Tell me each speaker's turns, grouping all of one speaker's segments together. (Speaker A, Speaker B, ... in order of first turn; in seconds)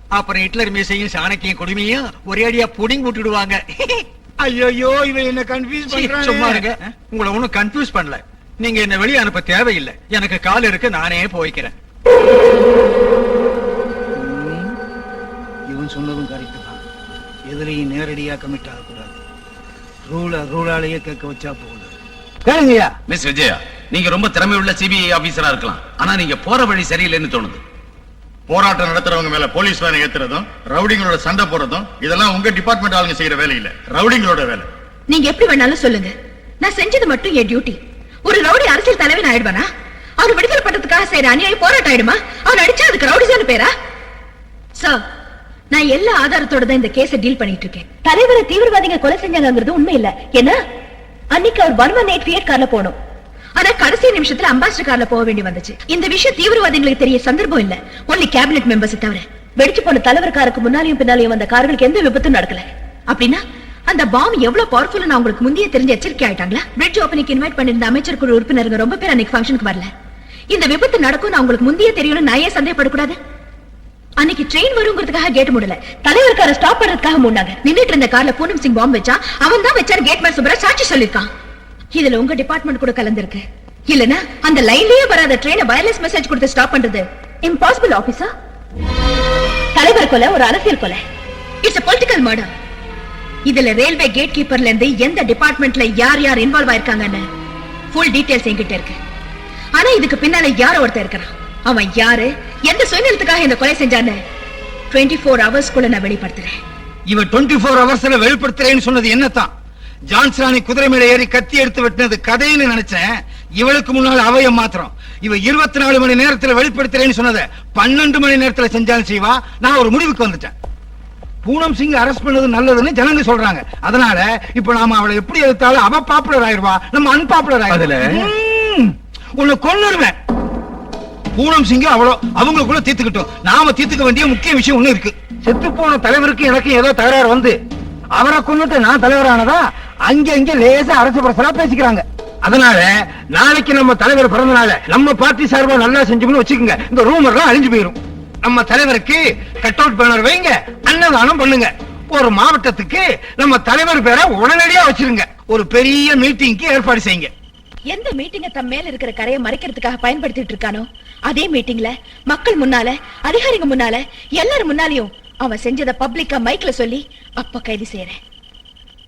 Speaker A: 0.1-4.0, 5.9-11.7
Speaker B: 4.4-6.9, 14.2-14.7, 15.7-16.8, 17.5-19.1, 20.1-21.9, 22.4-22.9, 107.1-109.5, 110.1-120.5, 121.4-130.1, 131.3-137.6, 138.1-157.3
Speaker C: 23.1-27.6
Speaker D: 28.5-34.7
Speaker E: 35.1-39.7, 40.2-43.7, 45.7-50.6, 51.3-52.9, 53.5-69.9, 70.5-73.2, 74.2-81.3, 81.9-88.3, 89.7-91.0, 91.6-92.5, 93.5-97.2, 97.9-99.0, 99.7-104.2, 104.9-106.6, 157.9-168.2